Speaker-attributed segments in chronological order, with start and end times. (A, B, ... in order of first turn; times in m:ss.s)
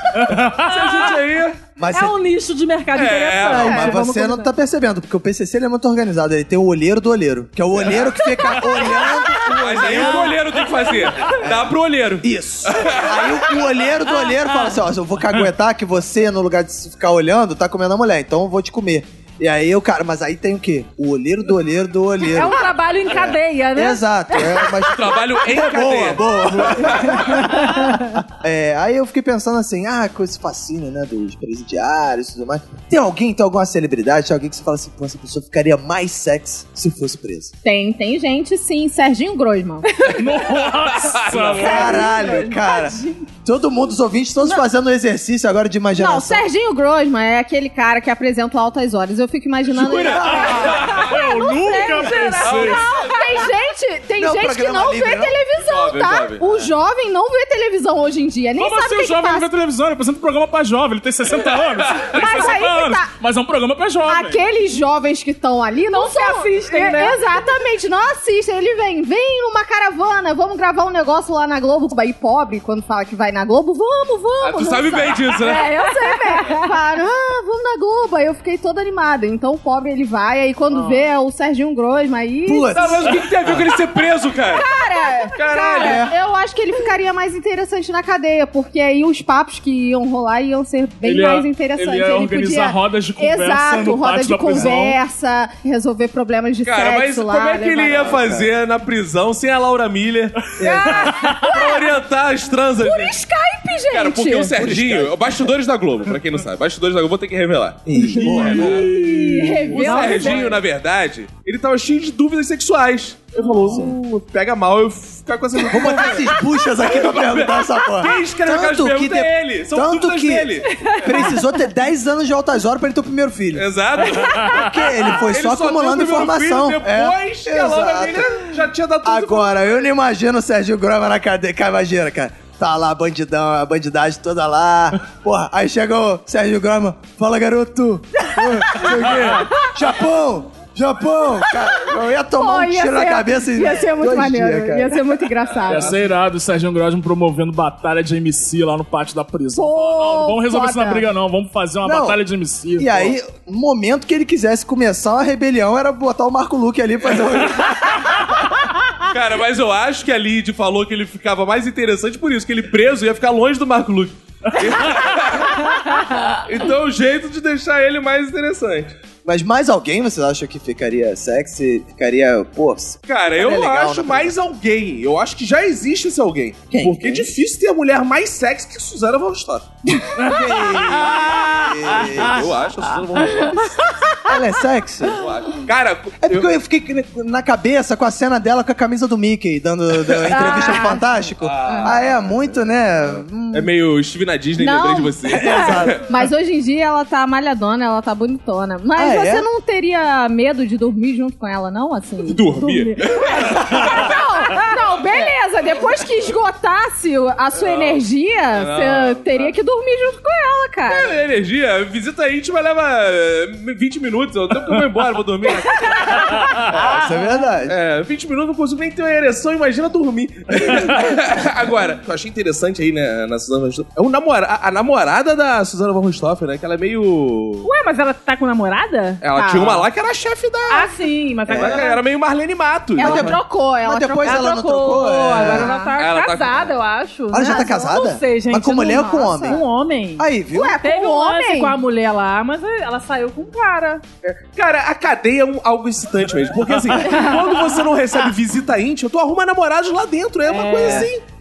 0:00.2-0:00.8 A
0:00.6-0:01.6 B
0:01.8-0:02.2 C
0:01.9-0:04.5 D
0:02.9-0:03.7 B
0:03.4-0:10.4 C
0:03.6-0:04.0 E
0:09.5-0:13.4 B
0:11.2-0:37.5 C
0:22.2-0:24.8 D
0:24.9-0:27.2 B
0:37.6-0:39.9 E
0:40.0-0:40.4 D
0:40.1-0:42.2 A
0:40.9-0:41.9 B
0:41.6-0:46.5 C
0:41.8-0:43.0 D
0:42.1-0:43.0 E
0:46.0-0:59.5 E
0:49.7-0:51.2 B
0:50.2-0:50.5 C
0:50.3-0:52.9 A
0:51.6-0:52.7 D
0:52.4-0:53.5 B
0:54.2-0:55.4 C
0:55.6-0:56.4 B
0:58.6-1:04.4 A
1:02.1-1:03.1 E
1:04.0-1:23.1 E
1:05.9-1:07.3 D
1:14.4-1:15.7 B
1:15.4-1:16.7 D
1:22.4-1:23.2 C
1:22.7-1:24.7 B
1:24.5-1:38.2 E
1:25.3-1:26.1 B
1:25.8-1:26.1 C
1:31.0-1:35.0 A
1:36.6-1:40.5 B
1:38.0-1:38.5 C
1:40.6-1:41.2 C
1:40.6-1:41.9 E
1:41.1-1:41.4 A
1:41.4-1:43.2 B
1:42.8-1:44.5 E
1:43.9-1:48.9 B
1:44.5-1:45.4 C
1:47.9-1:48.8 C
1:48.2-1:49.9 A
1:48.4-1:50.6 E
1:49.0-1:50.6 D
1:49.7-2:01.4 B
1:53.7-1:53.9 C
1:55.6-2:03.7 C
2:03.5-2:04.6 B
2:04.4-2:08.5 C
2:05.2-2:09.7 B
2:09.0-2:25.0 C
2:21.9-2:26.0 E
2:25.6-2:25.9 B
2:25.7-2:33.2 A
2:29.5-2:31.1 E
2:31.8-2:32.2 C
2:32.8-2:38.0 C
2:39.1-2:48.9 B
2:49.2-2:54.3 C
2:53.1-2:59.7 B
2:56.7-2:57.3 C
2:59.9-3:02.5 C
3:00.2-3:01.8 A
3:01.9-3:04.0 B
3:04.2-3:05.2 C
3:05.1-3:06.5 B
3:06.2-3:13.7 C
3:10.3-3:10.6 B
3:10.3-3:11.0 E
3:11.4-3:12.4 B
3:13.2-3:16.0 B
3:14.6-3:31.2 E
3:15.2-3:16.0 C
3:19.0-3:19.5 C
3:22.2-3:24.2 B
3:27.5-3:29.6 B
3:30.9-3:36.4 B
3:35.9-3:36.3 E
3:36.7-3:37.8 C
3:37.7-3:47.7 B
3:47.6-3:49.2 D
3:49.2-3:50.9 B
3:49.4-3:49.9 E
3:50.7-3:52.0 D
3:51.5-3:53.4 B
3:51.5-3:51.8 C
3:53.0-3:55.9 E
3:53.0-3:55.7 C
3:54.2-4:00.3 D
3:56.0-3:56.7 B
3:57.3-3:59.6 C
3:57.4-3:57.8 E
3:58.7-3:59.6 E
4:00.2-4:00.8 C
4:00.5-4:01.8 E
4:00.8-4:04.0 D
4:04.2-4:11.2 B
4:07.0-4:07.6 D
4:10.5-4:11.1 D